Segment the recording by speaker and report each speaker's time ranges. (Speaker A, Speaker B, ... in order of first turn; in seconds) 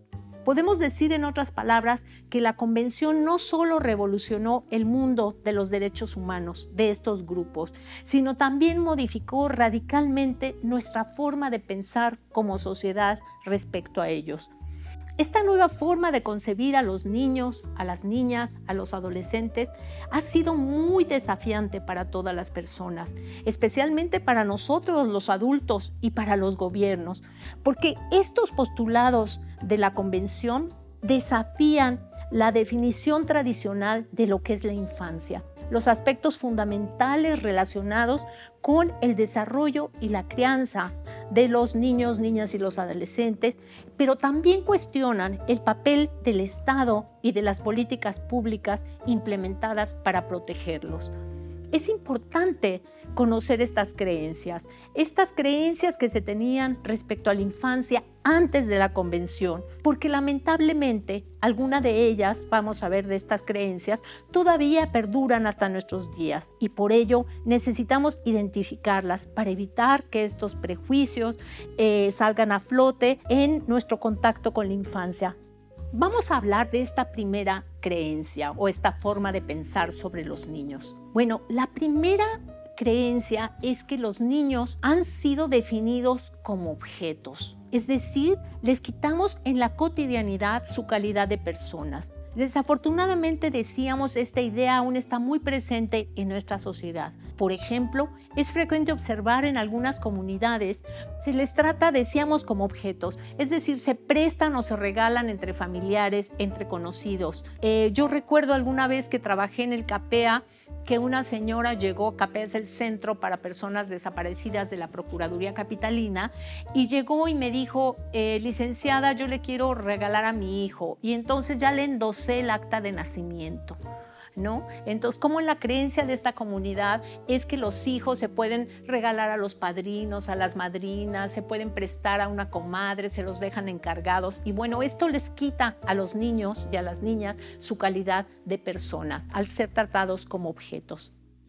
Speaker A: 0.5-14.5, 15.2-51.1, 51.7-75.3, 75.9-123.8, 124.4-141.1